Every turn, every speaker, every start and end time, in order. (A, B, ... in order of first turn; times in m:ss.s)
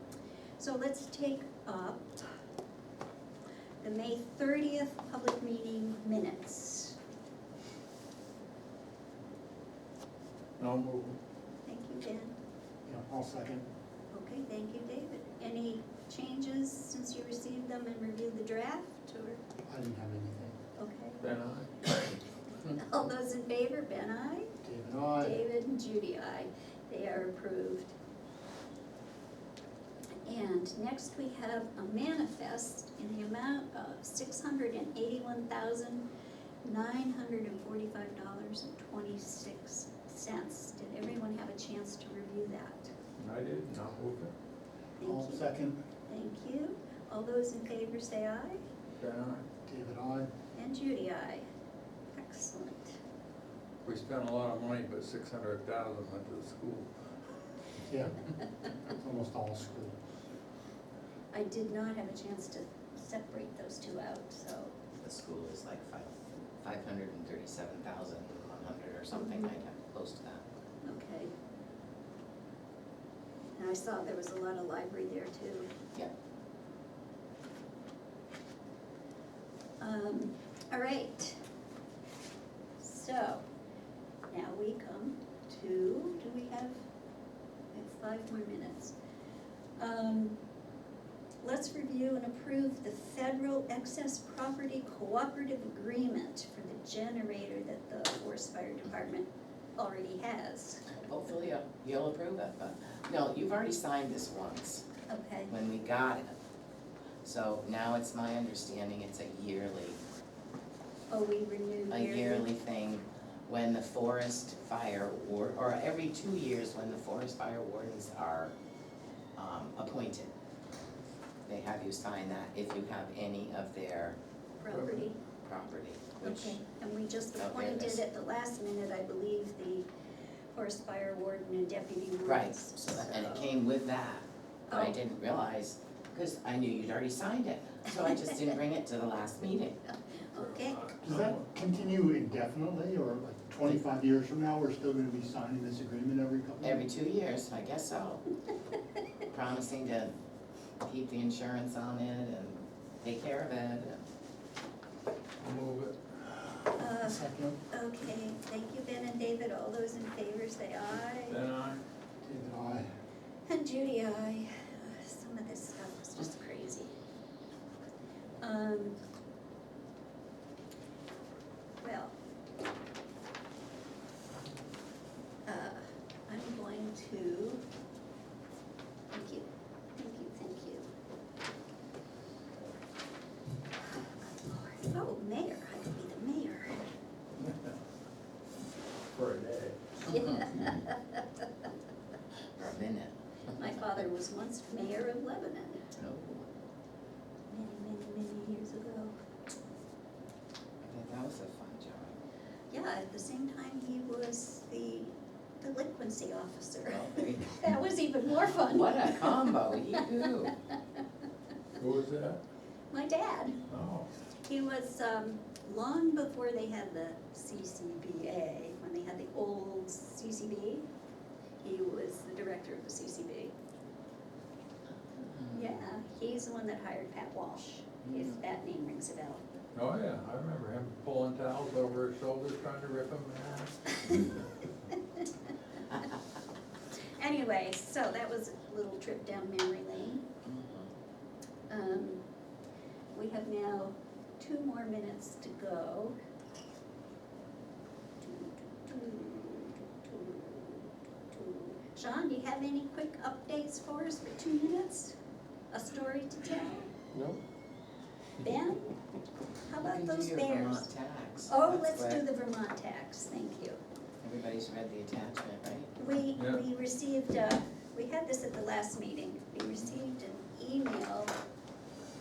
0:00.6-0:02.4 A
0:03.8-0:07.0 A
0:10.6-0:11.2 B
0:11.6-0:12.3 A
0:12.9-0:13.6 C
0:14.1-0:19.4 A
0:19.7-0:20.6 C
0:20.8-0:21.2 A
0:21.2-0:22.2 B
0:22.7-0:24.5 A
0:24.6-0:25.4 C
0:25.2-0:27.9 A
0:30.2-0:36.0 A
0:36.6-0:42.9 A
0:43.2-0:44.3 B
0:45.0-0:45.4 A
0:45.0-0:45.8 C
0:46.1-0:48.6 A
0:49.0-0:49.4 B
0:49.7-0:50.3 C
0:50.6-0:51.5 A
0:52.1-0:53.0 A
0:53.8-0:56.9 B
0:57.8-0:58.2 C
0:58.9-0:59.9 C
1:01.3-1:04.8 A
1:05.0-1:10.4 D
1:09.2-1:09.5 A
1:10.8-1:11.3 A
1:13.6-1:15.7 A
1:19.8-1:21.4 A
1:22.8-1:23.4 A
1:24.3-1:26.8 A
1:27.7-1:28.9 A
1:29.8-1:30.4 A
1:31.4-1:40.9 A
1:40.9-1:44.8 D
1:45.1-1:45.5 A
1:45.5-1:46.3 D
1:47.2-1:50.0 D
1:51.1-1:52.5 A
1:51.9-1:58.5 D
1:59.4-2:00.3 D
2:01.5-2:04.2 D
2:04.6-2:05.2 A
2:04.7-2:05.1 B
2:05.4-2:06.6 D
2:06.2-2:09.9 A
2:07.4-2:08.0 D
2:10.5-2:13.5 A
2:12.2-2:19.8 D
2:14.7-2:15.0 A
2:20.1-2:20.8 A
2:20.3-2:21.5 B
2:21.0-2:26.8 C
2:26.6-2:28.2 D
2:29.3-2:30.1 D
2:30.8-2:34.0 D
2:35.4-2:36.0 B
2:36.8-2:41.4 A
2:36.9-2:37.6 C
2:41.3-2:41.8 B
2:42.2-2:42.9 C
2:43.5-2:46.9 A
2:48.4-2:49.0 A
2:51.8-2:52.2 A
2:55.5-2:57.6 A
2:59.1-3:00.9 A
3:04.3-3:06.9 A
3:07.4-3:07.7 B
3:09.1-3:09.8 B
3:10.1-3:11.2 A
3:12.6-3:13.1 D
3:13.6-3:15.9 A
3:16.0-3:16.5 D
3:17.5-3:19.1 A
3:20.8-3:22.2 D
3:22.7-3:30.0 A
3:26.9-3:27.8 D
3:28.6-3:30.6 D
3:31.8-3:32.4 B
3:32.9-3:33.6 A
3:33.7-3:34.1 B
3:34.4-3:40.9 A
3:41.6-3:43.5 A
3:45.2-3:45.8 D
3:45.5-3:49.4 A
3:48.0-3:48.4 D
3:49.8-3:54.3 B
3:57.2-4:00.3 A
4:00.4-4:00.9 D
4:01.7-4:02.2 A
4:03.1-4:06.2 A
4:08.2-4:15.2 A
4:15.7-4:16.9 A
4:18.4-4:19.0 A
4:19.7-4:20.9 A
4:19.8-4:22.2 D
4:21.5-4:23.8 A
4:24.2-4:26.0 D
4:26.0-4:31.3 A
4:26.4-4:26.6 B